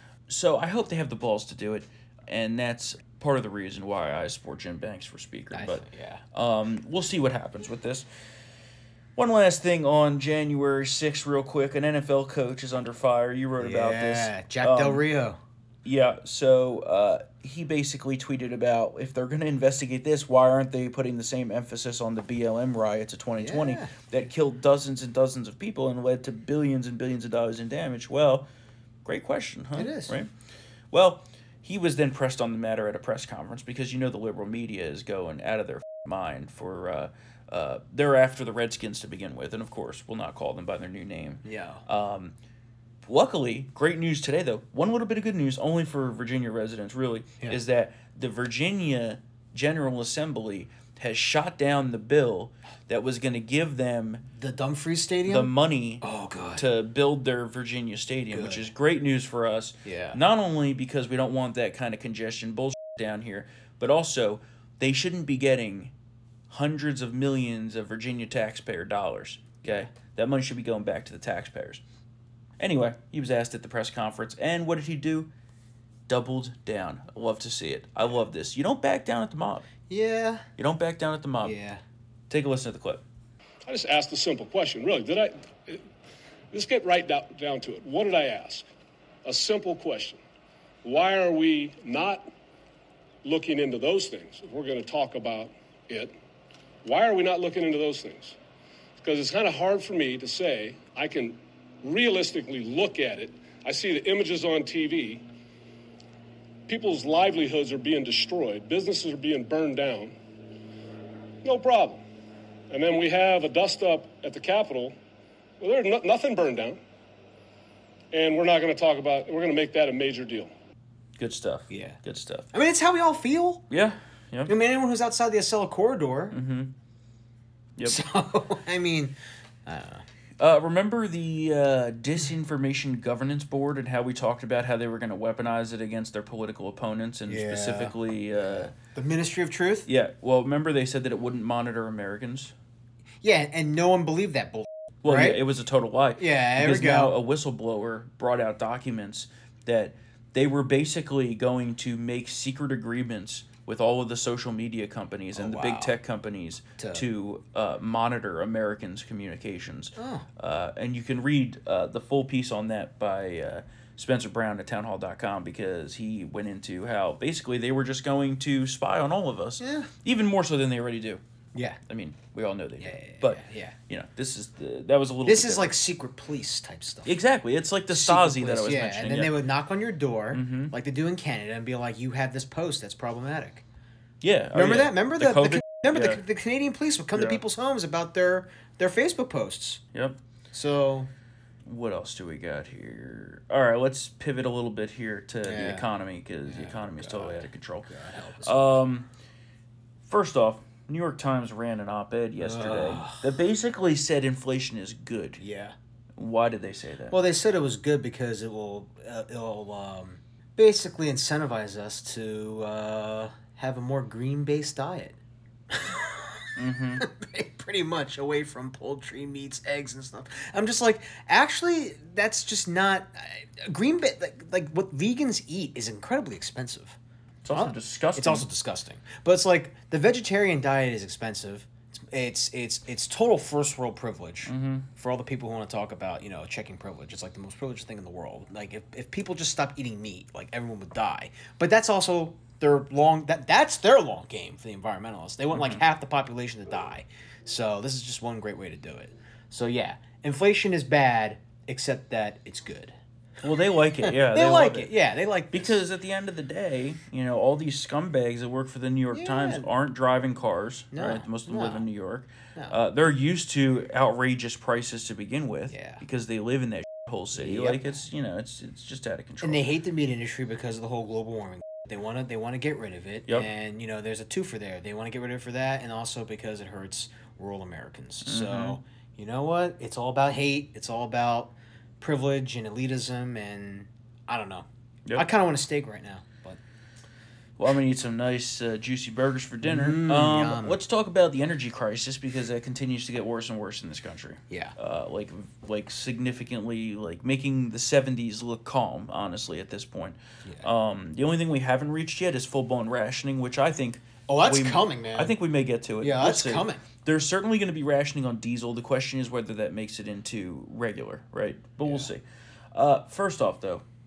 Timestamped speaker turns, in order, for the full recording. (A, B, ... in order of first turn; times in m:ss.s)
0:00.3-0:08.1 A
0:05.5-0:06.2 B
0:09.2-0:15.0 A
0:13.6-0:15.4 B
0:15.8-0:28.5 A
0:23.4-0:23.9 B
0:29.0-0:30.3 A
0:29.8-0:30.2 B
0:30.9-0:42.4 A
0:41.4-0:41.8 B
0:43.0-0:54.3 A
0:54.3-0:56.7 B
0:55.3-0:56.0 A
0:56.6-1:05.9 A
0:58.3-0:58.7 B
0:59.8-1:00.2 B
1:06.5-1:11.8 A
1:12.6-1:15.3 A
1:16.1-1:19.7 A
1:19.9-1:20.5 B
1:20.6-1:21.6 A
1:21.4-1:21.8 B
1:22.3-1:23.0 A
1:23.7-1:25.8 C
1:26.5-1:28.6 C
1:29.2-1:30.2 C
1:30.8-1:32.3 C
1:33.2-1:36.1 C
1:36.8-1:38.4 C
1:39.0-1:45.2 C
1:46.7-1:50.2 C
1:51.4-1:52.0 C
1:52.7-1:55.0 C
1:55.6-1:56.8 C
1:58.1-2:00.5 C
2:01.2-2:02.5 A
2:01.7-2:02.0 B
2:02.5-2:03.6 B
2:03.7-2:04.5 A
2:04.5-2:06.4 B
2:06.3-2:06.7 A
2:07.8-2:08.0 A
2:07.8-2:10.0 B
2:10.4-2:18.7 A
2:17.3-2:19.9 B
2:19.9-2:22.5 A
2:23.2-2:25.4 B
2:25.0-2:51.2 A
2:26.2-2:27.2 B
2:35.4-2:36.0 B
2:36.8-2:37.0 B
2:40.0-2:40.3 B
2:49.6-2:49.9 B
2:51.6-2:51.8 B
2:51.9-2:55.8 A
2:52.8-2:53.8 B
2:55.2-2:57.2 B
2:57.0-2:59.4 A
2:57.9-3:03.6 B
3:00.3-3:00.7 A
3:04.2-3:06.2 A
3:04.5-3:09.8 B
3:07.1-3:07.4 A
3:10.5-3:11.1 B
3:11.7-3:17.9 A
3:15.4-3:15.9 B
3:16.5-3:18.8 B
3:18.4-3:19.1 A
3:20.1-3:25.4 A
3:22.4-3:23.4 B
3:25.4-3:25.8 B
3:26.2-3:27.2 A
3:27.1-3:35.2 B
3:35.7-3:47.0 B
3:36.6-3:37.1 A
3:47.4-3:48.5 A
3:47.5-4:12.9 B
3:54.5-3:54.9 A
4:05.5-4:05.8 A
4:13.4-4:14.9 A
4:14.0-4:15.8 B
4:15.5-4:29.7 A
4:19.1-4:19.7 B
4:20.9-4:21.9 B
4:25.7-4:26.0 B
4:27.3-4:28.0 B
4:29.4-4:46.6 B
4:38.2-4:38.8 A
4:47.6-5:12.2 A
4:49.6-4:50.8 B
4:54.5-4:54.8 B
5:04.3-5:05.4 B
5:06.0-5:06.8 B
5:11.8-5:12.1 B
5:12.7-5:13.8 A